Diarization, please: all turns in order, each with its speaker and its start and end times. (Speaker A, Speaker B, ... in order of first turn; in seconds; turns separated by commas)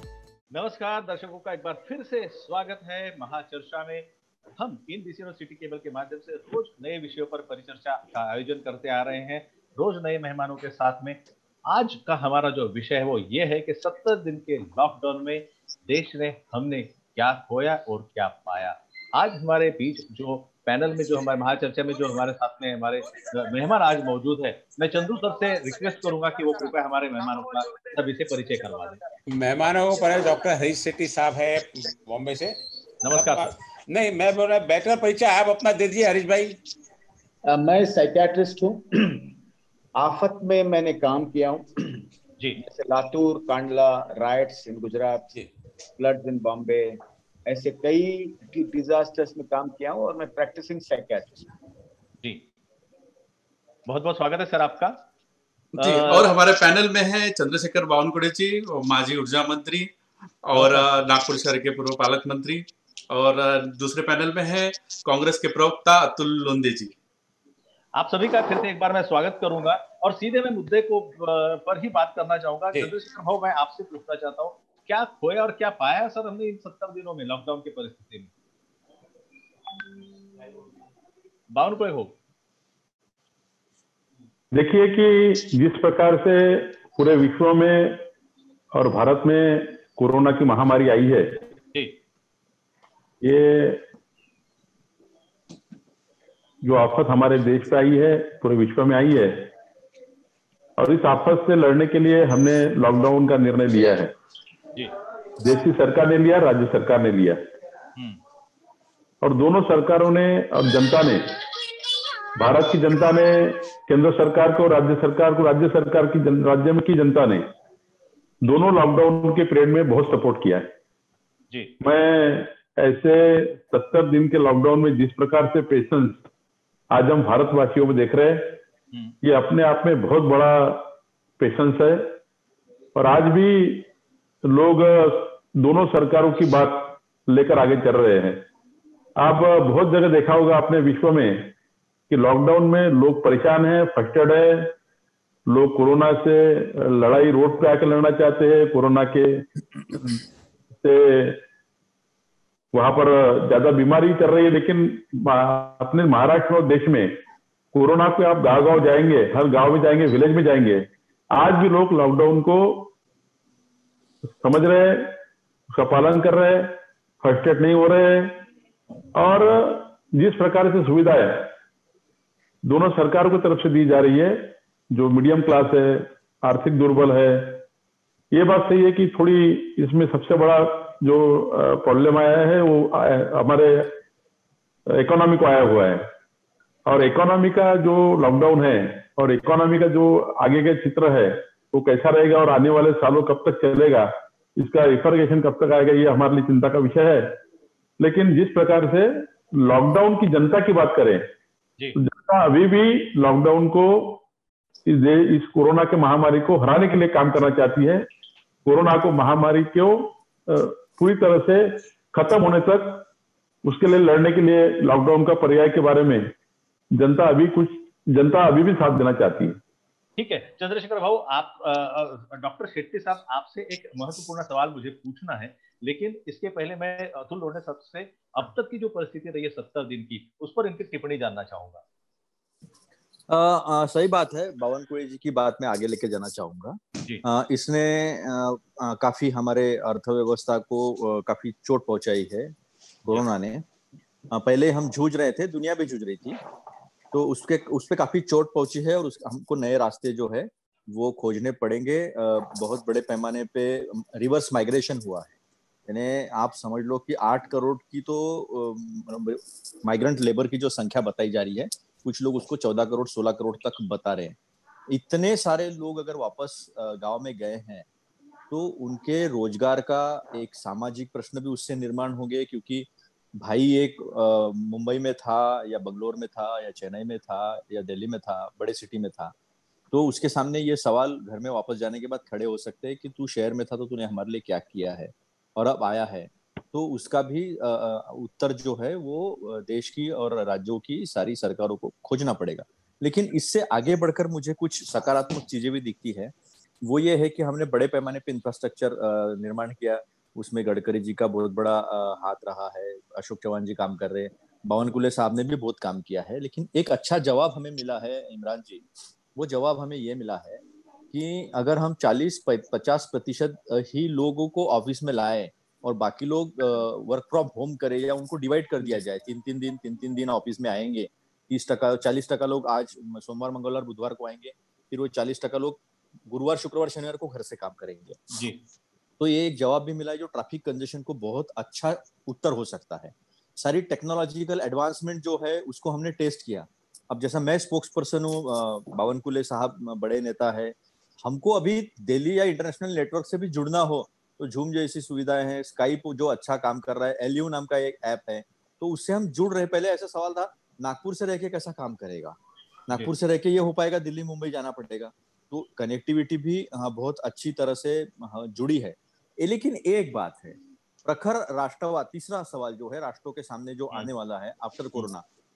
Speaker A: 0.5-29.0, Speaker B: 29.3-32.6, Speaker A: 33.0-33.5, Speaker B: 33.1-36.6, Speaker C: 37.5-39.3, Speaker C: 40.0-42.0, Speaker C: 42.6-45.3, Speaker C: 46.0-51.5, Speaker A: 53.9-55.0, Speaker D: 55.8-59.9, Speaker A: 55.8-56.3, Speaker D: 60.4-66.9, Speaker A: 60.6-60.9, Speaker A: 68.0-78.3, Speaker A: 81.5-82.1, Speaker E: 84.5-88.1, Speaker E: 88.7-91.5, Speaker E: 93.2-93.8, Speaker E: 96.6-99.5, Speaker E: 100.8-104.1, Speaker E: 105.4-107.4, Speaker E: 109.2-111.4, Speaker E: 112.3-117.5, Speaker E: 118.4-120.7, Speaker A: 121.5-121.8, Speaker E: 121.8-126.2, Speaker E: 126.9-128.6, Speaker E: 129.2-132.2, Speaker E: 132.9-133.9, Speaker E: 134.4-138.4, Speaker E: 139.2-141.5, Speaker E: 142.1-144.7, Speaker E: 145.5-150.2, Speaker E: 150.8-151.4, Speaker E: 152.7-157.2, Speaker E: 157.7-162.9, Speaker E: 164.3-165.2, Speaker E: 165.7-168.4, Speaker E: 169.2-171.5, Speaker E: 172.6-177.6, Speaker E: 178.3-184.0, Speaker E: 184.9-186.1, Speaker E: 186.9-197.4, Speaker E: 198.0-201.3, Speaker E: 201.9-204.2, Speaker E: 204.9-208.1, Speaker E: 208.7-213.1, Speaker E: 213.7-216.3, Speaker E: 216.9-219.6, Speaker A: 220.2-231.8, Speaker F: 233.3-243.7, Speaker F: 244.3-246.4, Speaker F: 247.1-255.3, Speaker F: 255.9-264.4, Speaker F: 264.9-267.9, Speaker F: 268.5-279.3, Speaker F: 279.9-310.6, Speaker F: 311.1-328.3, Speaker A: 328.3-328.6, Speaker F: 329.2-352.4, Speaker F: 352.9-365.2